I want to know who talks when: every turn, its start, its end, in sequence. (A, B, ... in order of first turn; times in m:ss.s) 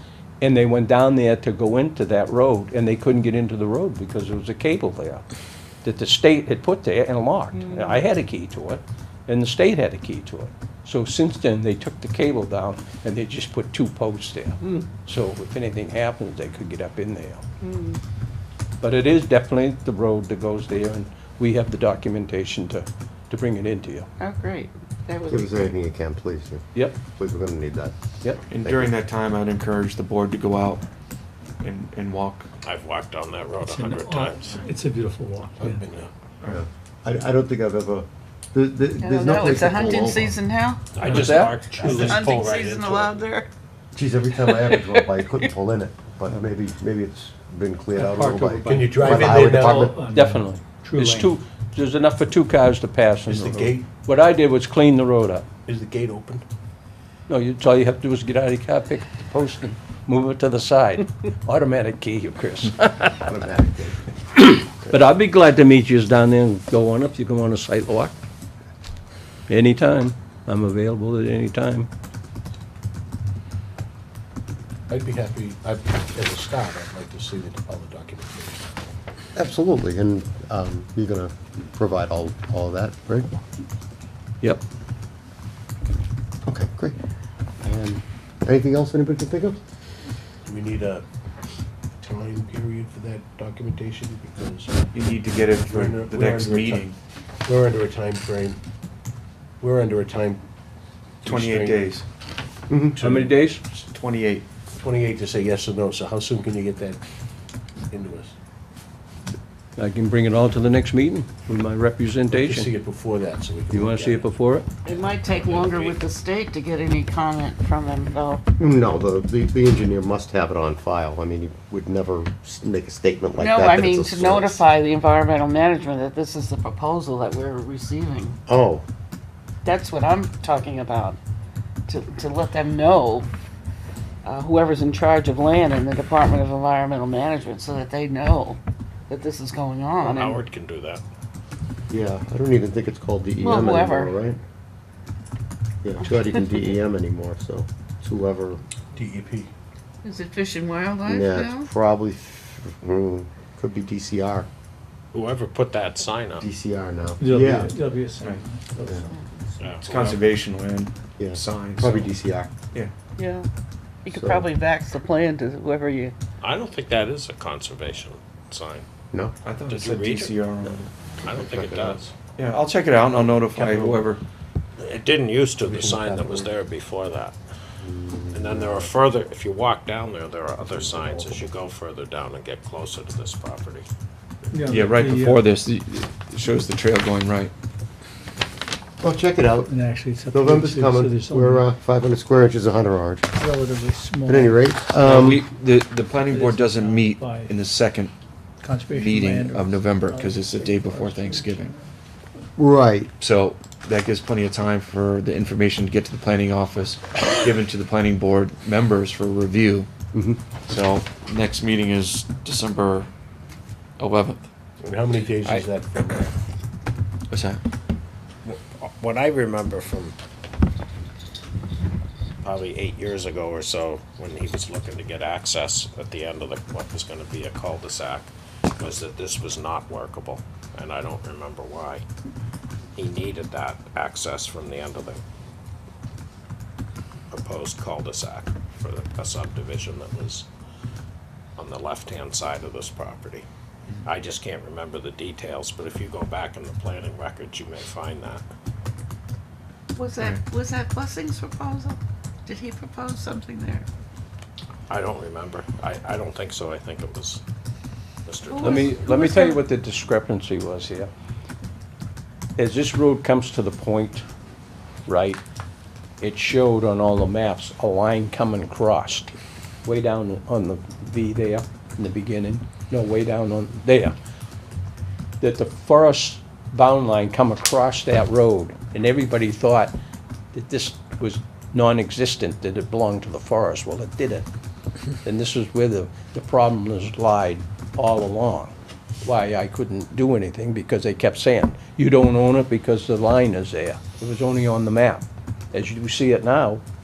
0:00.4-0:05.2 A
0:05.8-0:17.4 A
0:07.5-0:08.0 B
0:17.6-0:18.0 B
0:18.8-0:24.1 A
0:24.2-0:25.8 B
0:25.3-0:27.9 C
0:28.5-0:30.8 D
0:28.5-0:28.9 C
0:31.6-0:32.5 D
0:32.6-0:34.7 E
0:33.6-0:35.8 F
0:35.6-0:36.1 G
0:35.7-0:36.1 E
0:36.4-0:40.4 C
0:39.0-0:40.9 B
0:40.9-0:43.3 E
0:41.0-0:41.6 A
0:41.1-0:42.2 F
0:41.8-0:43.5 B
0:44.0-0:50.0 C
0:44.4-0:45.2 B
0:48.0-0:51.4 F
0:48.7-0:50.0 G
0:50.1-0:55.4 A
0:53.3-0:53.8 G
0:55.7-0:56.4 G
0:57.3-1:03.3 A
1:03.2-1:04.0 C
1:04.4-1:08.1 A
1:09.5-1:11.9 A
1:14.9-1:18.6 G
1:19.3-1:23.3 C
1:26.4-1:27.0 C
1:27.6-1:29.6 C
1:30.4-1:31.0 G
1:32.0-1:34.9 G
1:34.9-1:37.0 D
1:35.6-1:36.9 G
1:37.4-1:38.6 G
1:39.6-1:40.4 G
1:41.2-1:42.0 G
1:41.2-1:42.0 D
1:42.7-1:43.0 C
1:43.0-1:43.3 G
1:43.0-1:43.6 A
1:43.6-1:44.4 D
1:44.7-1:47.0 G
1:47.9-1:48.3 G
1:49.8-1:52.7 A
1:52.3-1:54.3 G
1:53.7-1:54.7 A
1:54.8-1:58.4 B
1:54.9-1:56.0 E
1:58.6-2:04.6 C
2:03.4-2:08.4 B
2:08.5-2:08.8 C
2:09.6-2:11.2 B
2:11.9-2:13.3 B
2:14.2-2:20.4 B
2:20.0-2:21.0 E
2:21.9-2:24.4 C
2:23.4-2:24.2 B
2:25.8-2:28.6 C
2:26.0-2:26.5 B
2:28.9-2:29.5 G
2:30.0-2:31.7 B
2:31.1-2:34.5 C
2:35.1-2:36.4 E
2:36.4-2:37.8 C
2:37.2-2:39.1 F
2:39.6-2:40.2 E
2:39.8-2:42.1 D
2:41.2-2:42.5 C
2:43.2-2:43.5 B
2:44.0-2:46.1 B
2:44.1-2:44.5 C
2:46.4-2:48.9 E
2:49.4-2:50.9 D
2:49.7-2:50.4 E
2:50.6-2:52.0 C
2:51.2-2:52.1 E
2:51.9-2:54.2 D
2:54.8-2:57.4 E
2:55.7-2:56.4 G
2:57.8-2:58.9 C
2:58.3-3:03.9 E
3:00.9-3:01.4 C
3:04.5-3:05.4 F
3:04.6-3:07.5 D
3:09.0-3:09.8 C
3:09.7-3:11.7 F
3:10.3-3:13.2 C
3:13.3-3:14.8 F
3:14.2-3:15.4 C
3:14.9-3:18.1 D
3:16.2-3:17.5 F
3:18.6-3:21.8 F
3:18.9-3:21.7 D
3:22.6-3:23.1 C
3:23.2-3:29.9 D
3:30.1-3:30.4 C
3:30.6-3:33.1 D
3:34.0-3:34.5 D
3:34.8-3:36.4 G
3:37.3-3:37.6 D
3:38.4-3:40.2 E
3:42.4-3:52.0 E
3:53.0-3:55.2 E
3:57.3-4:00.5 E
4:01.6-4:03.4 E
4:04.0-4:08.4 E
4:10.0-4:13.8 B
4:14.9-4:17.4 E
4:18.2-4:19.0 E
4:18.5-4:19.6 B
4:18.6-4:21.1 A
4:22.6-4:24.2 A
4:25.1-4:25.4 A
4:26.2-4:29.3 A
4:29.8-4:34.1 A
4:35.4-4:39.9 A
4:40.5-4:44.4 A
4:45.2-4:56.8 A